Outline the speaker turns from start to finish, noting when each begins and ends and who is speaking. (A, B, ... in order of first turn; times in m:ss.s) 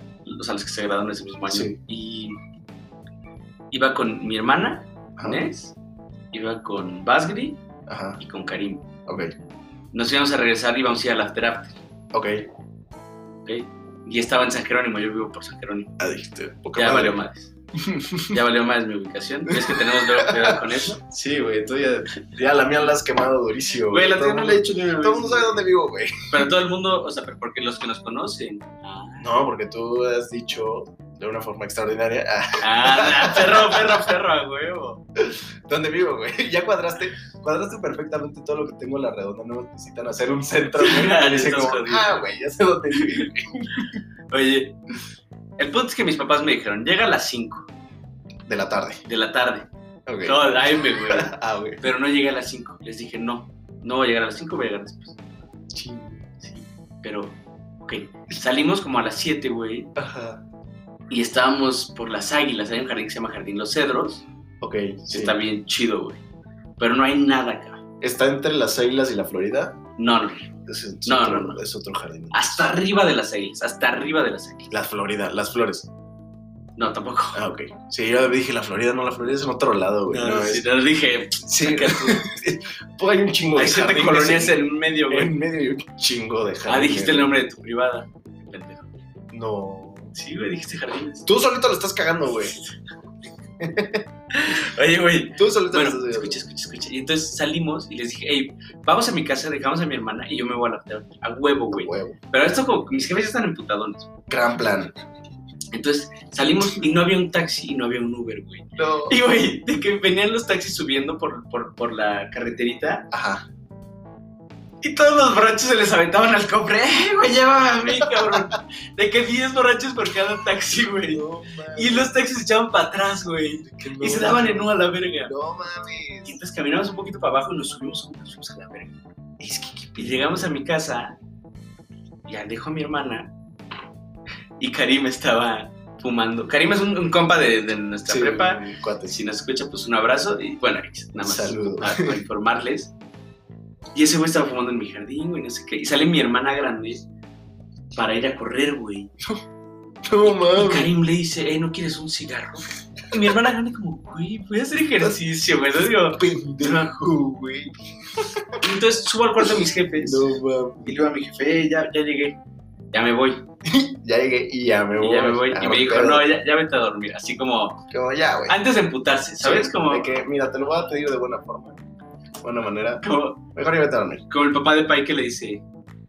0:00.2-0:02.4 A
0:01.5-0:01.8 B
0:03.7-0:05.7 A
0:05.2-0:05.4 B
0:06.3-0:07.6 A
0:07.9-0:08.2 B
0:08.2-0:08.8 A
0:09.1-0:09.3 B
0:09.9-0:11.8 A
0:12.1-0:12.4 B
0:13.4-0:15.9 A
0:16.0-0:17.2 B
0:16.7-0:17.5 A
0:17.8-0:18.4 B
0:18.3-0:21.0 A
0:19.5-0:26.4 B
0:23.9-0:25.7 A
0:26.3-0:29.3 A
0:29.2-0:34.1 B
0:32.6-0:35.0 A
0:35.2-0:44.0 B
0:40.8-0:42.2 A
0:42.9-0:43.3 A
0:44.3-0:44.8 A
0:45.6-0:47.7 A
0:48.5-0:49.0 B
0:49.0-0:49.7 A
0:50.0-0:51.8 B
0:50.2-0:55.2 A
0:55.7-0:56.2 B
0:56.4-0:59.9 A
1:00.0-1:00.4 B
1:01.1-1:04.2 A
1:04.6-1:05.4 B
1:05.1-1:06.2 A
1:06.8-1:07.8 A
1:08.0-1:09.8 B
1:10.0-1:10.5 A
1:10.7-1:12.7 B
1:11.0-1:11.6 A
1:12.3-1:14.7 A
1:14.7-1:15.9 B
1:16.8-1:17.4 A
1:17.3-1:20.6 B
1:20.1-1:22.3 A
1:21.4-1:27.3 B
1:23.6-1:25.3 A
1:26.7-1:28.9 A
1:29.3-1:30.1 B
1:30.1-1:31.3 A
1:31.2-1:32.5 B
1:33.6-1:34.0 B
1:34.3-1:44.1 A
1:35.4-1:36.4 B
1:41.7-1:42.2 B
1:44.3-1:44.9 B
1:45.7-1:53.1 A
1:48.8-1:49.2 B
1:53.1-1:53.4 B
1:54.8-2:05.3 A
1:57.9-1:58.5 B
2:01.0-2:02.1 B
2:03.6-2:04.7 B
2:05.2-2:06.4 B
2:06.2-2:09.0 A
2:09.4-2:10.5 B
2:10.0-2:11.2 A
2:12.3-2:13.3 A
2:14.6-2:22.9 A
2:18.0-2:19.2 B
2:21.2-2:22.2 B
2:23.9-2:27.0 A
2:27.9-2:29.1 A
2:30.0-2:30.9 B
2:30.2-2:37.0 A
2:36.1-2:38.6 B
2:38.6-2:40.3 A
2:39.4-2:41.1 B
2:40.8-2:42.4 A
2:42.9-2:43.4 A
2:43.6-2:46.3 B
2:45.0-2:47.8 A
2:47.9-2:48.6 B
2:48.5-2:50.1 A
2:49.4-2:51.8 B
2:52.4-2:53.0 B
2:53.0-2:53.4 A
2:53.5-2:54.2 B
2:54.3-2:55.6 A